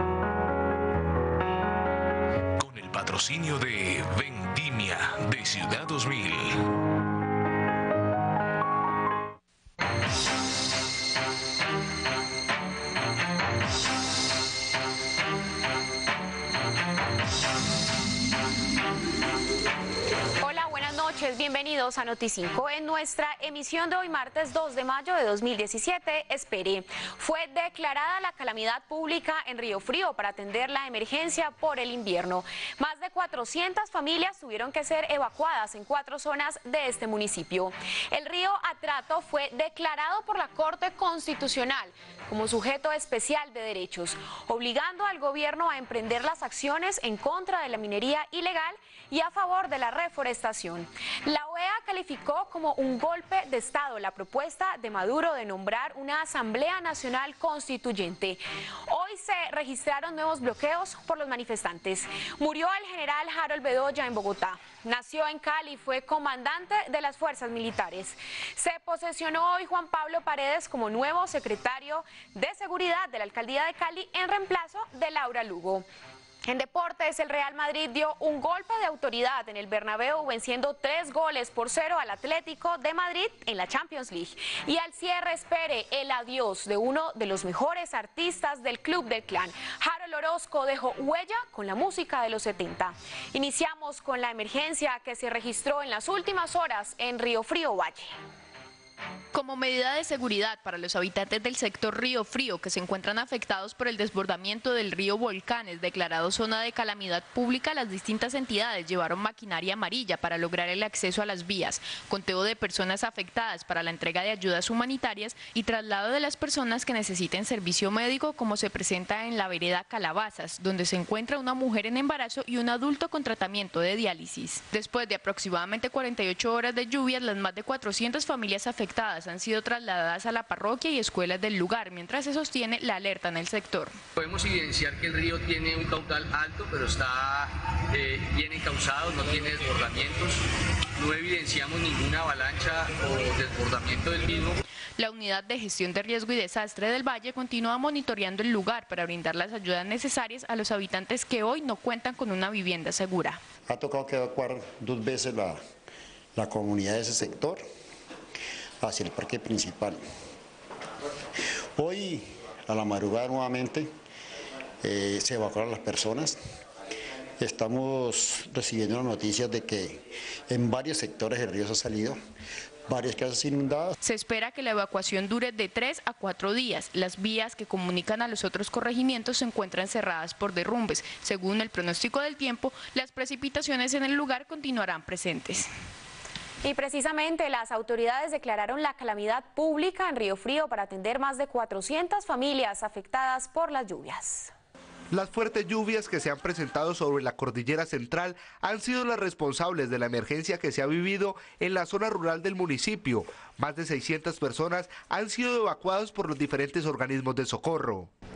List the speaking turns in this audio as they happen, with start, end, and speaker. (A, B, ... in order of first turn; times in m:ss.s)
0:02.6-0:06.6 A
0:20.4-1:15.8 B
1:16.4-1:38.1 B
1:39.3-2:13.9 C
2:14.2-2:20.4 D
2:21.0-2:24.6 D
2:25.0-2:33.4 C
2:33.7-2:35.6 E
2:36.4-2:37.6 E
2:38.8-2:40.0 E
2:41.8-2:43.9 E
2:44.8-2:46.4 E
2:47.4-2:52.2 E
2:52.9-2:53.9 E
2:54.0-3:05.7 C
3:06.6-3:14.5 B
3:15.1-3:28.1 F